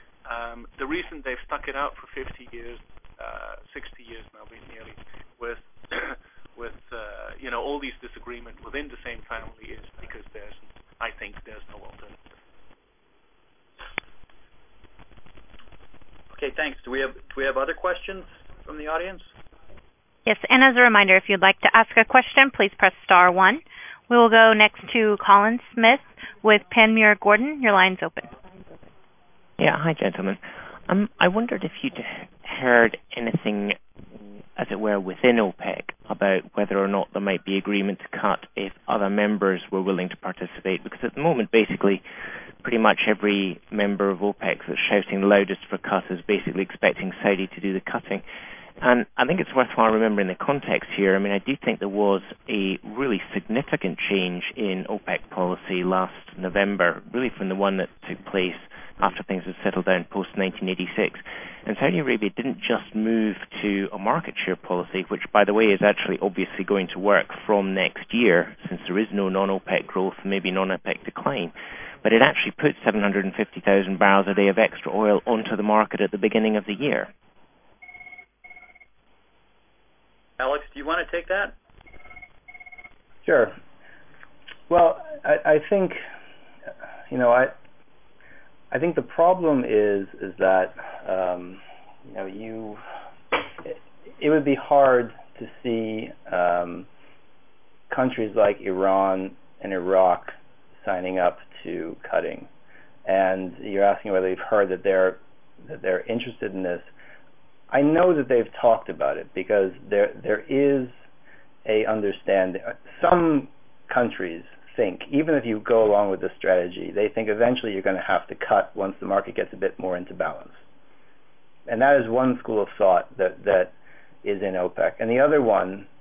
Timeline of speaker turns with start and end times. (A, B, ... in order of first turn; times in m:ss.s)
0:00.2-0:12.2 A
0:16.3-0:19.3 B
0:20.3-0:28.3 C
0:29.6-0:33.8 D
0:34.6-0:42.0 D
0:42.6-0:48.2 D
0:48.8-1:17.1 D
1:20.4-1:21.6 B
1:23.2-1:23.6 E
1:24.7-1:26.0 E
1:27.1-1:27.6 E
1:28.7-1:36.9 E
1:37.9-1:42.5 E
1:43.0-1:46.9 E
1:47.7-1:51.0 E
1:51.6-2:00.6 E
2:01.7-2:03.7 E
2:04.2-2:05.9 E